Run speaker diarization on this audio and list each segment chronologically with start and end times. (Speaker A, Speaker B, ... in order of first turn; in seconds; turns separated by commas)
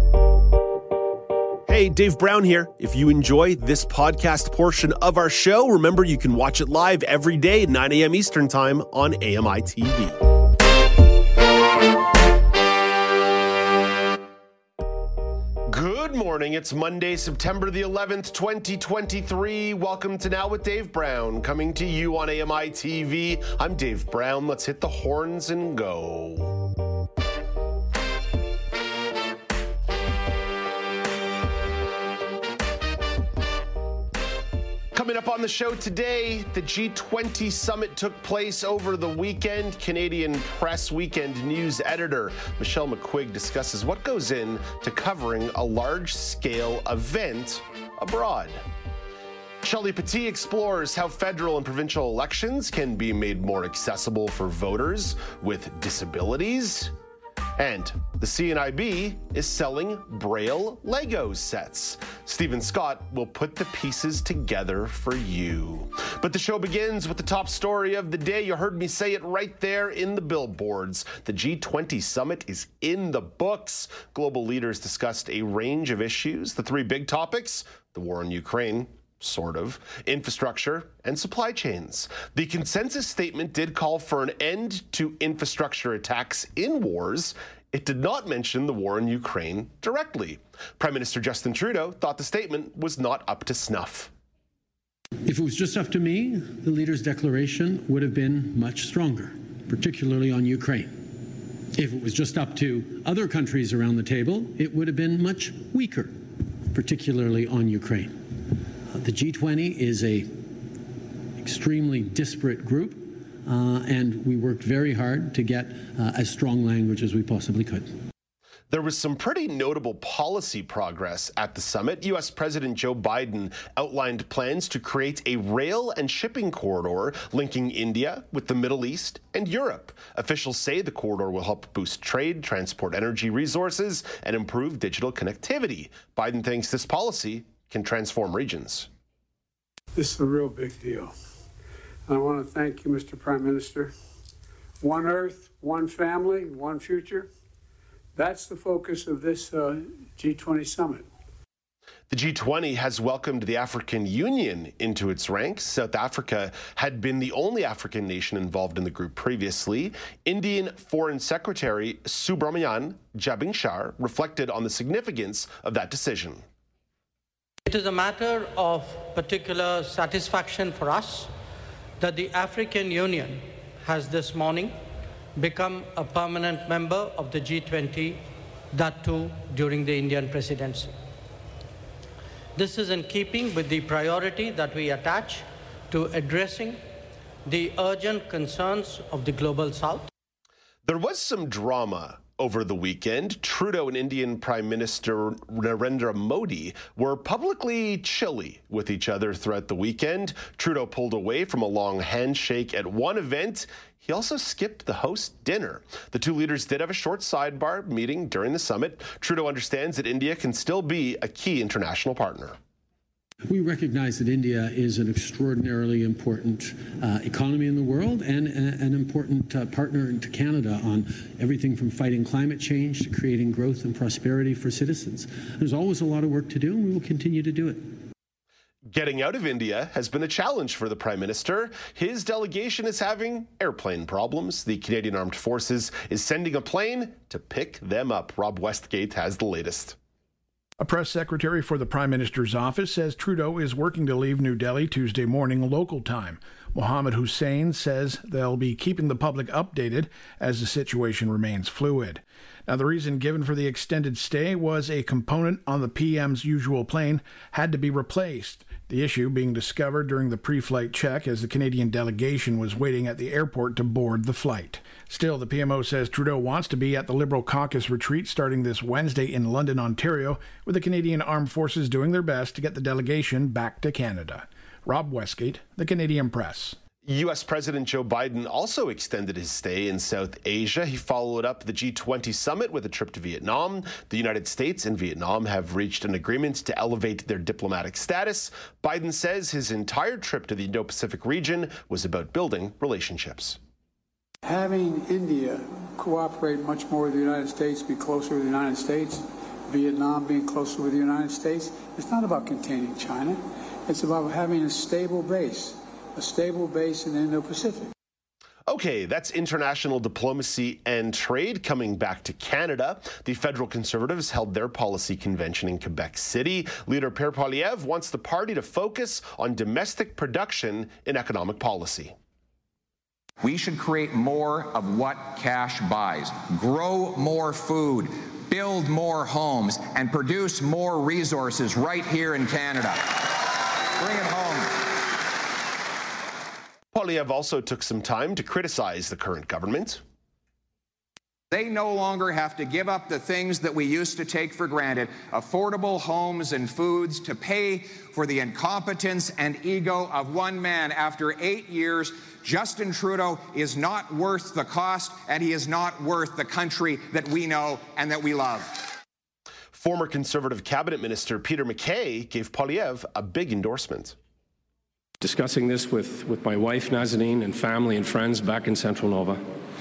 Speaker A: 1.7-10.2, Speaker A: 15.7-26.5, Speaker A: 34.9-48.6, Speaker A: 49.6-56.9, Speaker A: 57.6-94.1, Speaker B: 95.2-101.0, Speaker B: 101.8-108.3, Speaker B: 108.9-110.5, Speaker B: 111.4-117.9, Speaker A: 118.7-138.9, Speaker C: 139.9-141.1, Speaker C: 142.1-143.9, Speaker C: 144.8-147.3, Speaker C: 148.2-151.1, Speaker A: 152.1-166.4, Speaker D: 167.7-171.3, Speaker D: 172.0-174.8, Speaker D: 175.4-180.9, Speaker D: 182.6-186.8, Speaker D: 187.5-190.1, Speaker A: 190.8-212.6, Speaker B: 213.5-227.9, Speaker A: 228.9-240.0, Speaker E: 240.8-276.8, Speaker A: 277.0-293.6, Speaker C: 294.4-307.9, Speaker A: 308.7-322.1, Speaker F: 323.4-333.2, Speaker F: 334.0-334.8, Speaker A: 336.9-340.0, Speaker F: 341.5-358.8, Speaker A: 359.7-364.2, Speaker G: 365.2-369.4